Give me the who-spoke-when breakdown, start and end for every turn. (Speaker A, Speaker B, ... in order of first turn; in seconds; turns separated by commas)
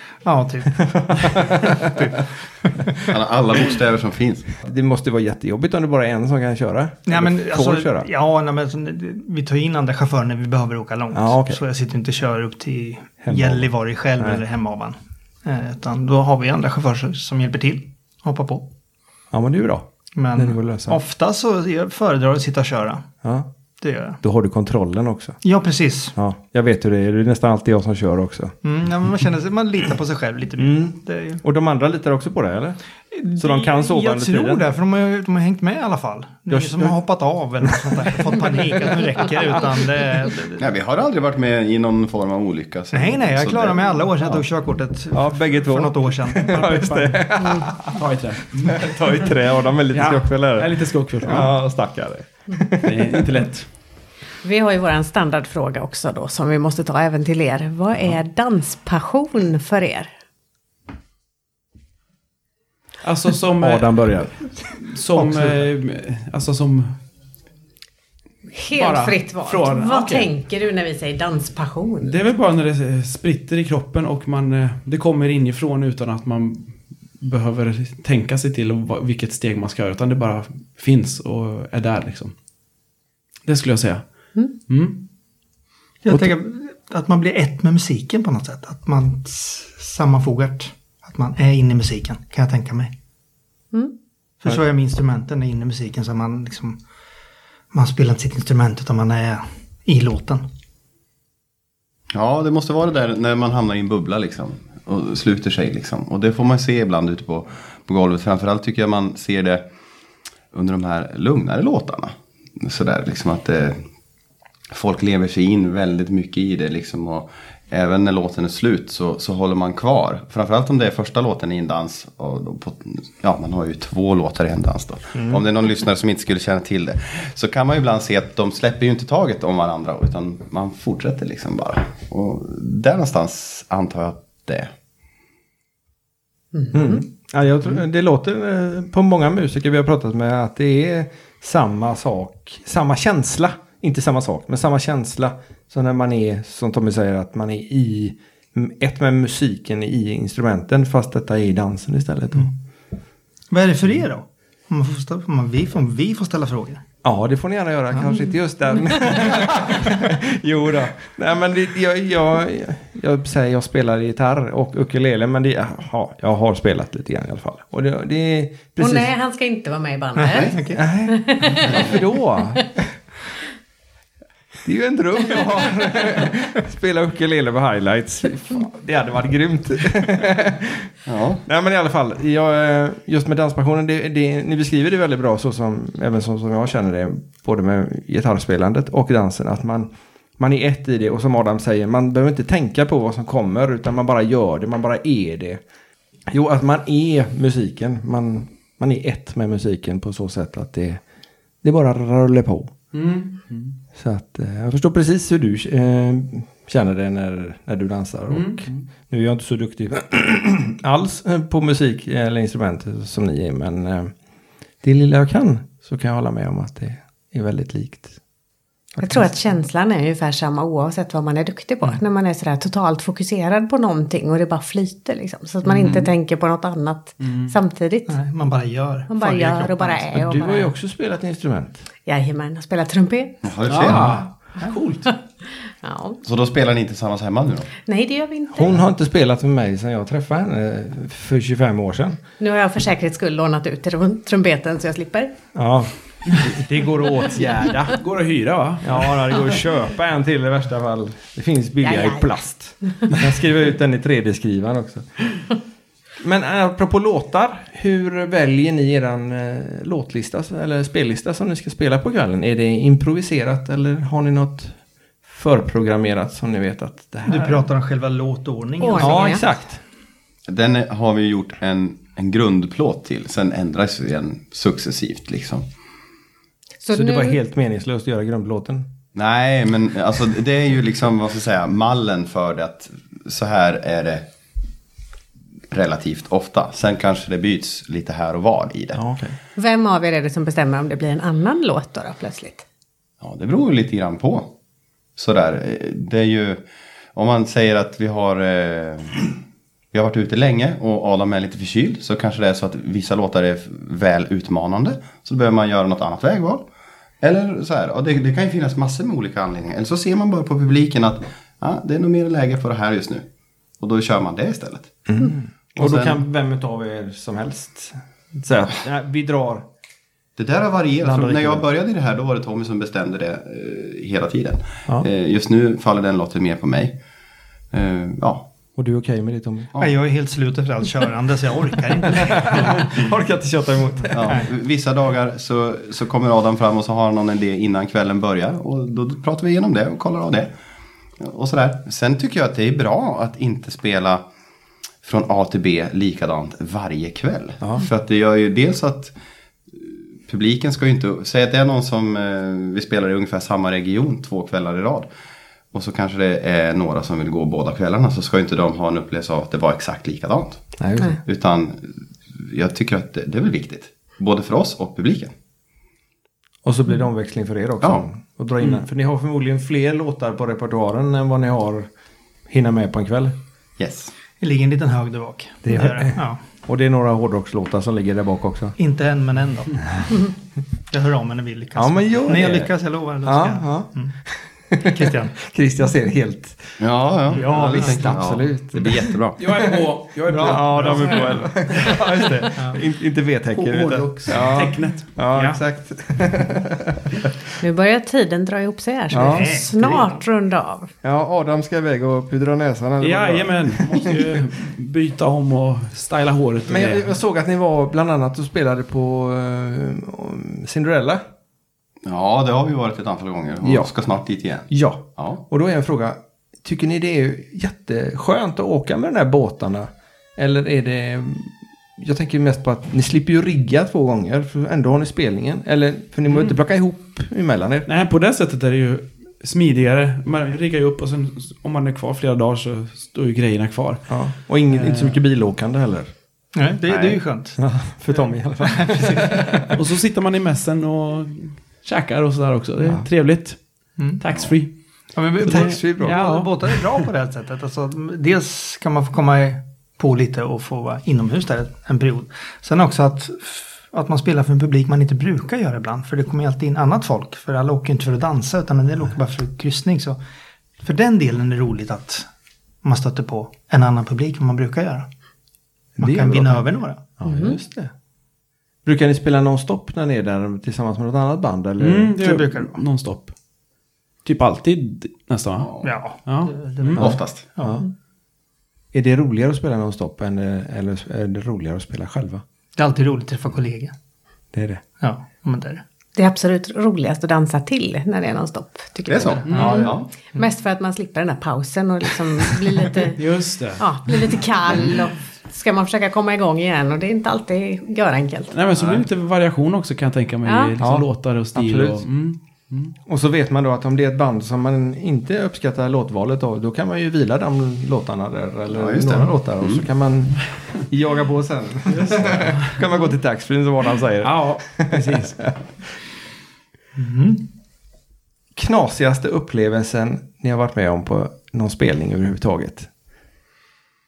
Speaker A: 0.2-3.1, Speaker B: 0.7-2.1, Speaker C: 3.1-4.5, Speaker B: 4.6-8.1, Speaker A: 7.1-18.7, Speaker B: 11.1-11.6, Speaker B: 13.2-14.4, Speaker B: 19.3-21.0, Speaker A: 20.1-23.1, Speaker A: 23.8-24.2, Speaker B: 24.2-25.4, Speaker A: 25.4-26.1, Speaker B: 26.1-28.5, Speaker A: 28.6-31.4, Speaker B: 30.6-32.8, Speaker A: 33.1-40.6, Speaker B: 33.3-34.7, Speaker B: 36.5-37.0, Speaker C: 40.6-44.0, Speaker A: 42.9-47.1, Speaker B: 45.1-48.0, Speaker D: 47.8-49.3, Speaker B: 48.6-53.4, Speaker D: 49.9-51.5, Speaker D: 52.8-53.7, Speaker E: 54.4-60.1, Speaker D: 63.0-64.2, Speaker B: 63.6-64.5, Speaker D: 64.8-67.0, Speaker B: 65.2-65.5, Speaker E: 68.5-72.2, Speaker D: 68.8-70.3, Speaker D: 72.0-82.3, Speaker D: 83.5-84.0, Speaker D: 84.7-85.0, Speaker A: 86.0-92.9, Speaker A: 94.4-96.8, Speaker A: 97.7-100.4, Speaker C: 102.1-109.6, Speaker C: 110.5-113.8, Speaker C: 114.7-134.7, Speaker E: 136.6-136.8, Speaker B: 136.7-152.5, Speaker A: 153.5-156.8, Speaker B: 157.0-169.1, Speaker E: 168.8-172.0, Speaker A: 170.2-170.8, Speaker C: 170.3-170.6, Speaker B: 170.7-172.8, Speaker B: 174.6-180.9, Speaker C: 181.1-181.4, Speaker B: 181.5-195.6, Speaker B: 196.3-201.0, Speaker B: 201.6-202.7, Speaker D: 202.9-203.8, Speaker B: 203.9-214.1, Speaker D: 208.3-208.8, Speaker B: 214.8-218.2, Speaker E: 219.0-228.2, Speaker D: 227.2-227.5, Speaker A: 228.1-230.1, Speaker E: 229.1-230.7, Speaker B: 230.1-231.8, Speaker E: 232.1-233.4, Speaker C: 233.4-234.2, Speaker D: 233.7-235.1, Speaker B: 233.9-234.2, Speaker E: 235.8-236.2, Speaker C: 236.2-237.7, Speaker E: 237.9-238.8, Speaker B: 238.6-242.2, Speaker E: 242.4-245.3, Speaker B: 245.6-248.0, Speaker D: 247.9-249.1, Speaker B: 248.8-255.1, Speaker E: 251.8-252.3, Speaker B: 256.2-267.6, Speaker A: 267.3-269.5, Speaker E: 268.8-269.4, Speaker B: 269.0-269.8, Speaker C: 270.5-275.7, Speaker E: 276.8-277.4, Speaker B: 276.9-278.9, Speaker C: 279.1-284.2, Speaker C: 285.7-289.0, Speaker B: 288.9-289.4, Speaker E: 289.6-292.6, Speaker C: 293.2-294.5, Speaker C: 295.2-296.6, Speaker C: 297.1-299.3, Speaker C: 299.9-306.6, Speaker C: 307.2-313.3, Speaker C: 313.8-314.9, Speaker B: 315.1-319.7, Speaker C: 315.8-316.2, Speaker C: 320.4-327.0, Speaker B: 321.0-321.7, Speaker C: 327.7-328.5, Speaker B: 328.8-329.7, Speaker A: 329.8-332.9, Speaker B: 332.1-334.4, Speaker C: 334.1-340.5, Speaker C: 341.2-344.2, Speaker C: 345.0-349.1, Speaker B: 347.6-347.9, Speaker C: 349.8-355.1, Speaker C: 355.7-360.6, Speaker B: 360.8-361.2, Speaker C: 361.2-365.3, Speaker B: 366.6-371.9, Speaker B: 372.5-373.3, Speaker C: 373.8-374.1, Speaker A: 374.4-376.4, Speaker B: 375.6-378.8, Speaker A: 378.8-379.9, Speaker A: 380.9-384.1, Speaker B: 381.8-382.7, Speaker B: 383.2-386.8, Speaker A: 384.8-385.3, Speaker C: 386.8-389.4, Speaker A: 387.3-388.2, Speaker B: 387.3-397.3, Speaker D: 389.4-392.1, Speaker A: 390.3-391.7, Speaker C: 393.6-394.5, Speaker D: 394.2-395.2, Speaker E: 397.6-400.9, Speaker B: 399.1-399.5, Speaker A: 399.1-400.1, Speaker B: 401.0-404.4, Speaker D: 403.0-407.1, Speaker B: 406.7-411.2, Speaker C: 412.1-415.4, Speaker B: 413.6-413.9, Speaker B: 414.7-427.9, Speaker D: 426.3-426.6, Speaker D: 427.9-434.1, Speaker B: 434.1-436.1, Speaker D: 434.7-435.2, Speaker A: 436.5-437.6, Speaker B: 437.6-439.7, Speaker A: 438.6-439.6, Speaker D: 439.7-443.6, Speaker B: 442.8-443.1, Speaker A: 444.0-444.2, Speaker D: 444.2-444.7, Speaker A: 445.1-460.2, Speaker D: 445.4-446.8, Speaker B: 445.4-446.2, Speaker A: 460.8-462.3, Speaker A: 462.8-465.1, Speaker B: 466.0-467.9, Speaker A: 466.0-467.1, Speaker E: 467.2-467.6, Speaker B: 468.9-472.1, Speaker D: 471.8-473.3, Speaker A: 472.2-472.8, Speaker D: 474.2-477.1, Speaker C: 475.6-475.9, Speaker A: 475.8-477.8, Speaker C: 477.0-477.4, Speaker B: 478.9-482.4, Speaker A: 482.8-483.9, Speaker B: 484.5-484.8, Speaker A: 485.0-485.8, Speaker E: 486.2-493.2, Speaker C: 489.1-490.1, Speaker D: 489.5-489.7, Speaker A: 489.5-489.9, Speaker D: 493.2-493.8, Speaker E: 493.8-498.5, Speaker D: 498.5-502.9, Speaker C: 498.8-499.1, Speaker E: 500.5-500.7, Speaker B: 500.8-502.1, Speaker B: 503.1-515.6, Speaker C: 508.7-509.8, Speaker D: 511.9-512.8, Speaker D: 514.2-515.4, Speaker A: 517.0-517.5, Speaker B: 518.5-522.9